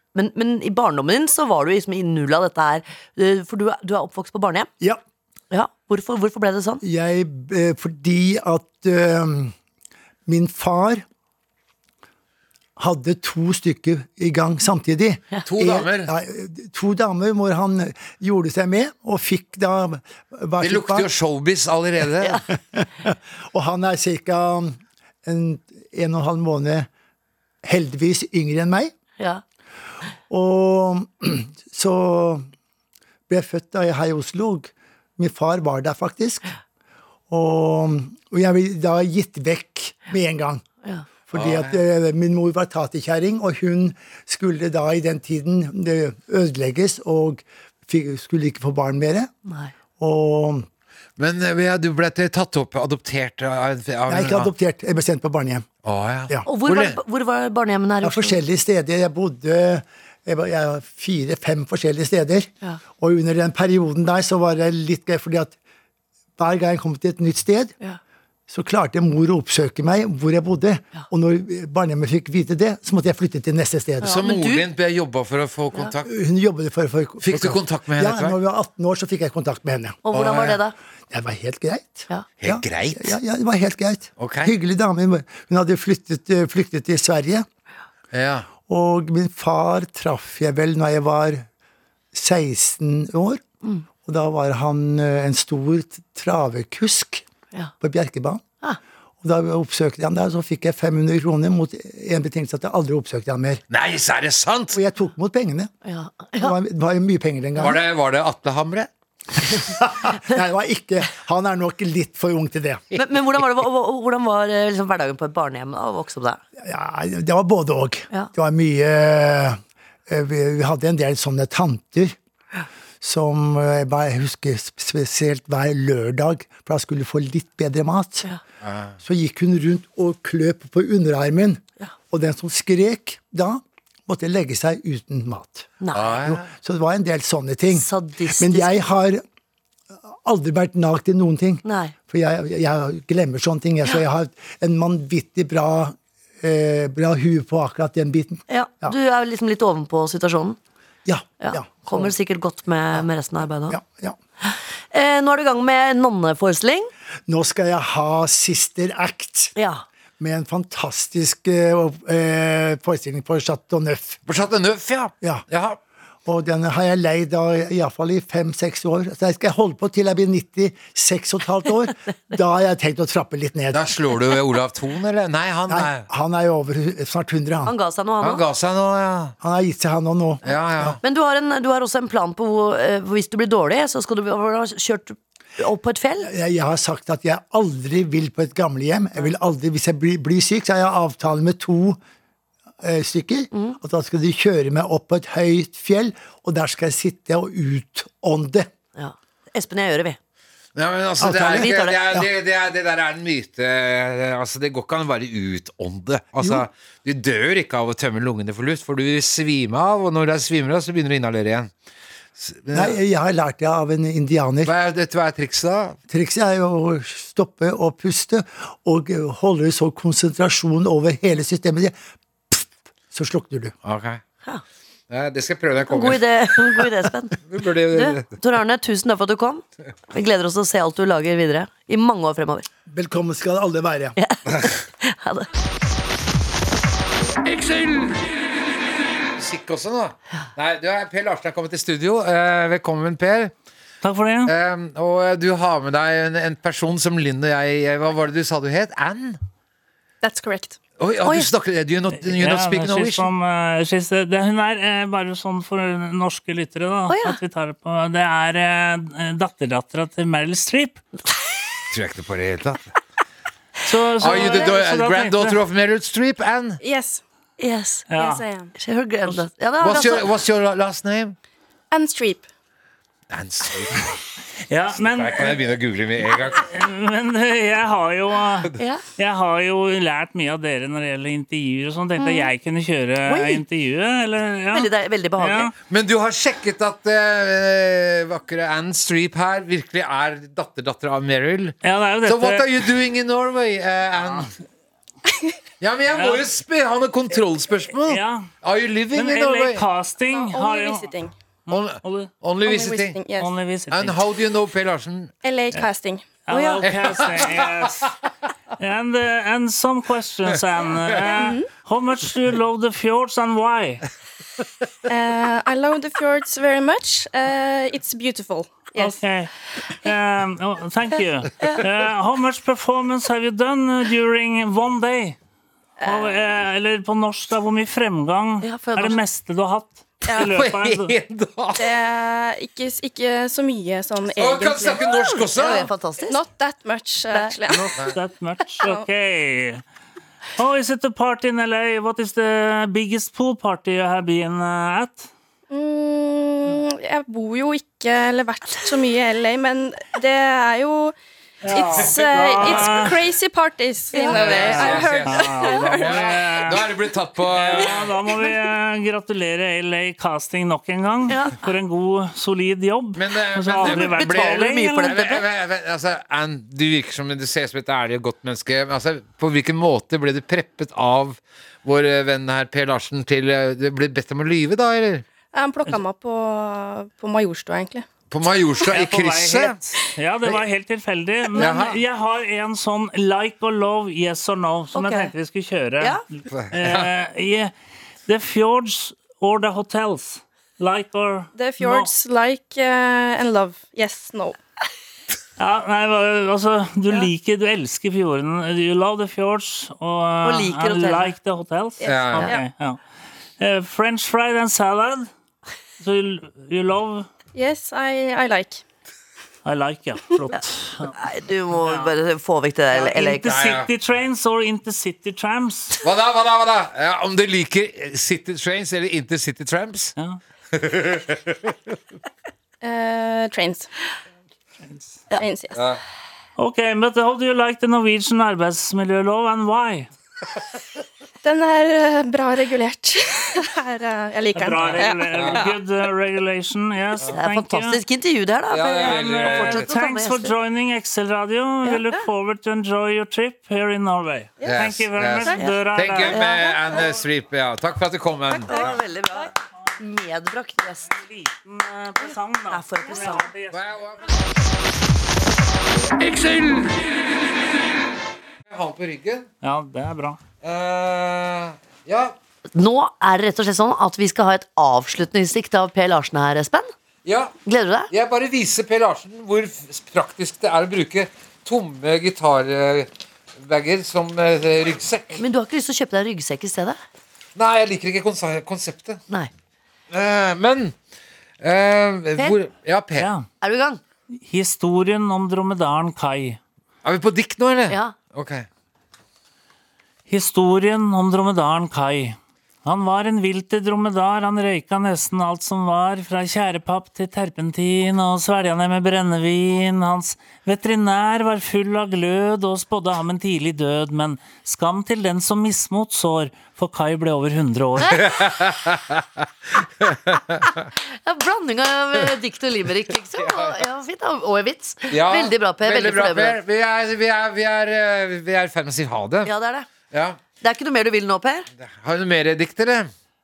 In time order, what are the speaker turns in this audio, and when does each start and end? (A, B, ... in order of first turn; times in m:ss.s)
0:00.2-0:04.7 A
0:05.5-0:06.8 A
0:06.8-0:09.5 B
0:10.3-0:11.0 B
0:12.8-0:21.1 B
0:15.4-0:16.1 C
0:20.6-0:22.4 C
0:22.7-0:26.9 B
0:27.6-0:28.9 B
0:30.3-0:32.4 B
0:33.3-0:36.5 B
0:37.3-0:40.6 B
0:41.3-0:49.3 B
0:41.3-0:41.8 C
0:49.5-0:49.7 A
0:50.0-0:50.7 B
0:51.2-0:54.5 C
0:54.1-0:55.7 B
0:55.8-0:57.0 C
0:56.5-0:58.4 A
0:58.0-1:05.5 B
1:06.4-1:07.8 B
1:08.5-1:14.2 B
1:14.0-1:14.7 A
1:14.0-1:16.1 C
1:16.1-1:20.0 B
1:17.2-1:18.4 C
1:20.0-1:20.8 A
1:20.1-1:20.6 C
1:21.1-1:27.5 B
1:22.4-1:23.2 C
1:24.2-1:24.5 C
1:28.1-1:28.5 C
1:28.6-1:31.5 B
1:32.1-1:33.4 B
1:34.0-1:37.2 B
1:37.8-1:38.4 B
1:39.2-1:43.6 B
1:43.7-1:44.8 C
1:44.7-1:45.7 B
1:45.8-1:46.6 A
1:46.4-1:47.8 B
1:47.6-1:48.9 C
1:49.6-1:52.8 B
1:52.9-1:56.4 A
1:56.6-2:02.2 B
2:03.0-2:08.3 B
2:08.6-2:09.0 C
2:09.0-2:15.8 B
2:15.8-2:16.4 A
2:15.9-2:16.4 C
2:16.3-2:19.2 B
2:17.7-2:18.9 A
2:20.2-2:29.0 B
2:21.6-2:21.9 A
2:28.5-2:30.6 A
2:31.1-2:32.1 B
2:31.4-2:33.8 A
2:33.7-2:34.2 B
2:34.4-2:36.9 A
2:37.3-2:39.5 B
2:39.6-2:39.8 A
2:40.2-2:44.2 B
2:44.3-2:45.8 C
2:46.2-2:53.9 B
2:53.7-2:56.1 C
2:55.7-2:57.7 B
2:57.7-2:58.4 A
2:58.2-2:59.4 C
2:59.4-3:01.0 B
3:00.4-3:01.0 C
3:01.0-3:06.3 A
3:06.2-3:12.0 B
3:12.8-3:18.7 B
3:13.5-3:13.8 A
3:19.0-3:20.2 A
3:20.8-3:31.7 C
3:21.2-3:22.3 B
3:21.5-3:22.0 A
3:32.4-3:33.0 C
3:32.7-3:34.7 B
3:34.6-3:36.0 C
3:36.1-3:42.0 B
3:42.5-3:43.8 B
3:43.8-3:44.2 C
3:45.1-3:46.9 C
3:45.9-3:52.7 A
3:47.4-3:48.3 C
3:52.9-3:54.2 B
3:54.2-3:55.5 A
3:59.4-4:03.5 C
4:04.0-4:04.5 D
4:04.5-4:09.4 C
4:10.2-4:10.8 E
4:11.0-4:13.3 C
4:11.2-4:11.5 A
4:12.1-4:21.0 D
4:17.1-4:17.4 A
4:21.9-4:22.9 C
4:23.9-4:25.6 D
4:24.2-4:26.8 C
4:24.3-4:24.6 E
4:26.8-4:27.2 E
4:27.6-4:28.1 A
4:28.1-4:28.5 D
4:28.2-4:28.7 E
4:28.8-4:30.3 A
4:29.8-4:31.4 C
4:31.9-4:32.4 E
4:33.3-4:34.1 C
4:34.7-4:35.6 D
4:34.9-4:36.6 C
4:36.6-4:45.7 D
4:43.3-4:43.6 A
4:44.7-4:45.7 A
4:45.9-4:54.5 C
4:51.8-4:52.7 D
4:55.8-4:59.8 C
4:56.1-4:56.5 D
4:58.0-4:58.5 D
4:59.1-5:01.1 D
5:00.3-5:01.3 E
5:01.7-5:02.3 D
5:01.7-5:03.2 C
5:02.6-5:03.5 E
5:03.4-5:04.2 D
5:03.9-5:05.3 C
5:05.4-5:06.3 E
5:06.5-5:08.1 D
5:06.5-5:06.8 A
5:06.8-5:08.1 C
5:08.8-5:14.0 D
5:11.2-5:11.7 E
5:15.1-5:19.2 E
5:19.0-5:25.4 D
5:26.0-5:26.4 E
5:26.0-5:31.1 D
5:28.6-5:29.2 A
5:30.3-5:31.9 C
5:31.8-5:35.2 E
5:34.3-5:35.9 C
5:35.3-5:36.4 A
5:36.2-5:37.9 E
5:37.7-5:39.8 D
5:38.8-5:39.1 E
5:40.6-5:45.3 D
5:45.7-5:51.2 E
5:51.6-5:53.2 D
5:51.7-5:56.3 E
5:51.8-5:53.1 C
5:54.1-5:54.6 A
5:54.3-5:58.1 C
5:54.4-5:56.9 D
5:57.5-6:05.2 D
6:01.3-6:01.6 A
6:03.2-6:15.2 C
6:03.8-6:05.4 A
6:15.5-6:18.1 E
6:18.3-6:19.8 C
6:18.9-6:27.7 D
6:21.5-6:22.0 C
6:24.9-6:25.3 A
6:26.5-6:27.1 C
6:28.3-6:32.1 D
6:31.5-6:34.6 E
6:35.6-6:43.0 D
6:40.4-6:41.4 A
6:42.0-6:42.6 E
6:42.0-6:42.6 C
6:43.6-6:45.3 D
6:46.0-6:47.3 D
6:47.5-6:48.8 E
6:49.6-6:51.2 D
6:50.5-6:53.6 A
6:51.8-6:52.1 D
6:52.9-6:56.0 D
6:53.5-6:53.9 C
6:56.0-7:00.2 C
7:00.7-7:01.8 C
7:02.8-7:03.9 E
7:04.9-7:05.2 D
7:05.3-7:05.8 E
7:05.7-7:06.0 C
7:06.6-7:10.1 D
7:11.4-7:15.7 E
7:14.6-7:18.0 D
7:15.0-7:15.7 C
7:17.3-7:20.5 A
7:18.7-7:19.9 C
7:18.9-7:26.4 D
7:24.6-7:29.0 C
7:26.2-7:27.0 A
7:28.6-7:31.1 A
7:31.1-7:33.8 D
7:32.7-7:33.5 A
7:33.7-7:34.5 C
7:38.7-7:39.5 C
7:39.6-7:40.4 D
7:40.6-7:42.4 C
7:42.7-7:46.9 A
7:47.2-7:47.6 C
7:47.7-7:48.1 A
7:48.1-7:55.4 C
7:55.4-7:57.0 A
7:57.6-7:59.2 C
8:00.1-8:01.0 C
8:01.6-8:03.3 C
8:03.2-8:03.5 D
8:03.6-8:04.0 A
8:04.3-8:06.6 D
8:07.0-8:08.7 C
8:07.9-8:08.2 A
8:10.3-8:28.3 D
8:28.2-8:29.2 C
8:30.0-8:30.6 C
8:31.2-8:36.6 A
8:33.4-8:33.8 C
8:35.1-8:39.5 C
8:39.4-8:39.9 A
8:40.1-8:40.4 C
8:40.6-8:41.7 A
8:41.8-8:43.1 C